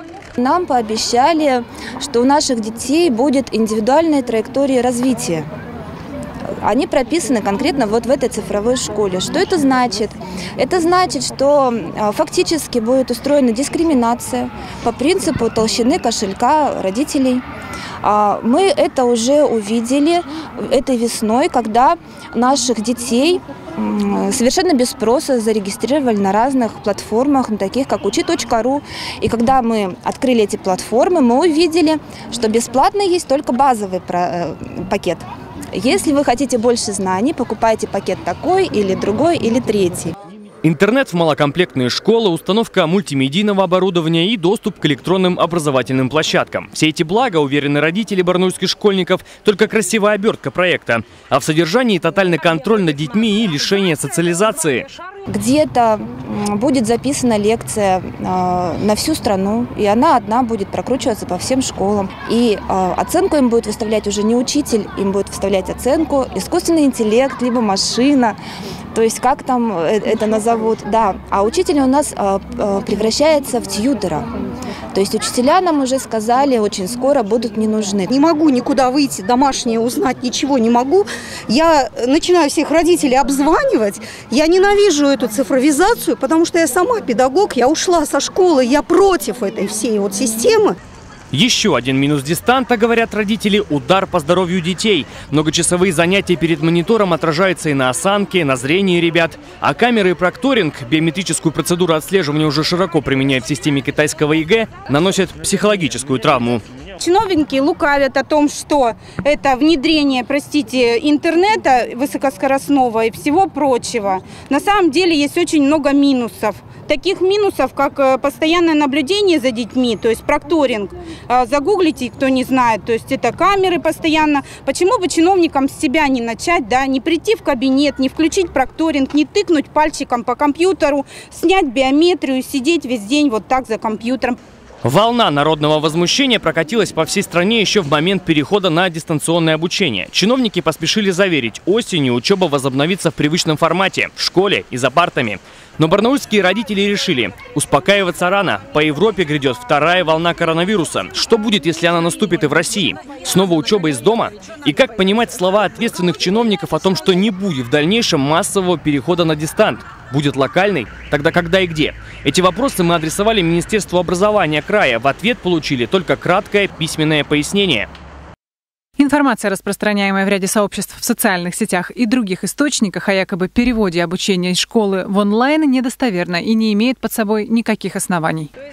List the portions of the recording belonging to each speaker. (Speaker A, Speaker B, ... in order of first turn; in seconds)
Speaker A: 0.4-5.5, 6.6-17.4, 18.0-40.1, 55.3-68.4, 68.9-74.3, 74.9-78.1
Speaker B: 40.6-54.9, 91.3-106.6, 134.8-167.9
Speaker C: 78.1-90.8
Speaker D: 107.0-134.4
Speaker E: 169.0-178.5